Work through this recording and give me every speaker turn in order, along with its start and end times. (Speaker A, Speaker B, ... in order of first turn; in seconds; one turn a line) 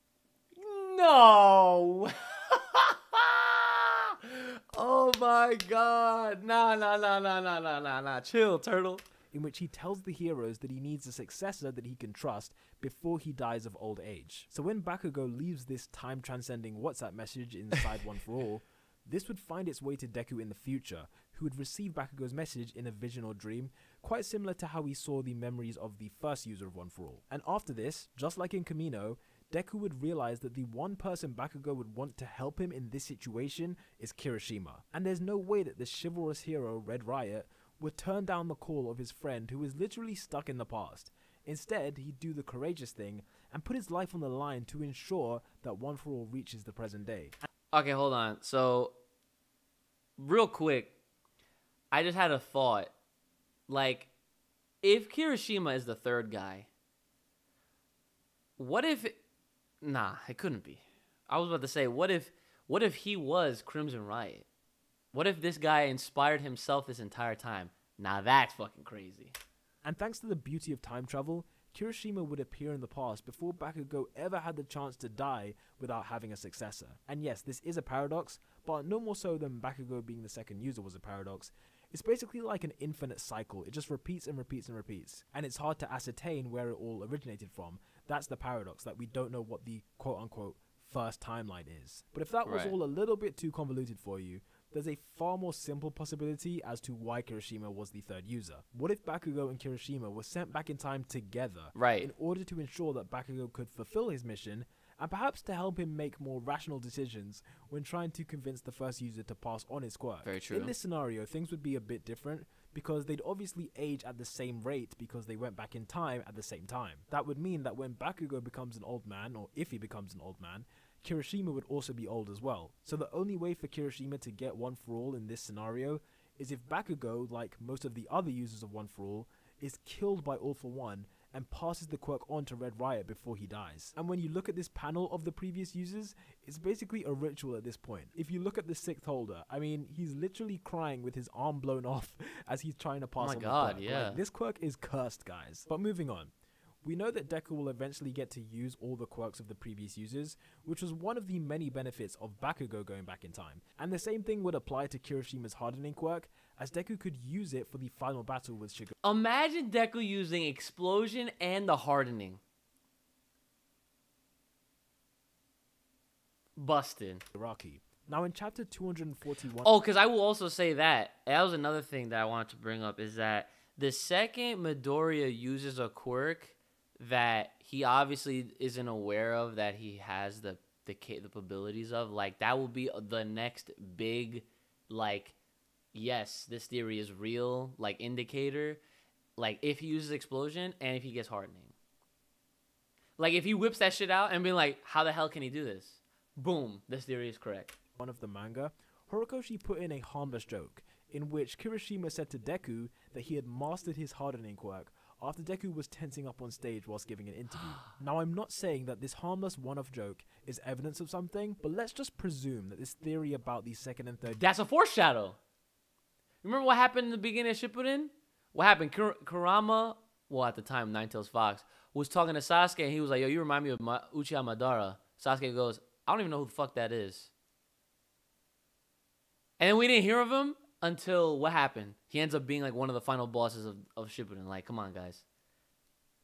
Speaker A: 0.6-9.0
Speaker B: 9.3-47.4
Speaker A: 47.7-49.0
Speaker A: 50.2-50.9
Speaker A: 51.9-52.9
Speaker A: 53.7-54.1
Speaker A: 54.8-56.7
Speaker A: 58.6-59.2
Speaker A: 59.8-64.5
Speaker A: 65.1-69.3
Speaker B: 69.8-146.3
Speaker A: 92.5-92.7
Speaker A: 101.8-102.1
Speaker A: 110.2-110.7
Speaker A: 143.2-144.2
Speaker B: 146.8-158.9
Speaker A: 159.0-162.4
Speaker A: 166.6-167.2
Speaker B: 167.3-169.7
Speaker A: 169.6-185.3
Speaker A: 185.9-188.8
Speaker A: 189.4-191.7
Speaker A: 193.2-197.8
Speaker B: 198.0-214.4
Speaker A: 214.3-215.4
Speaker A: 216.4-227.3
Speaker A: 229.6-235.2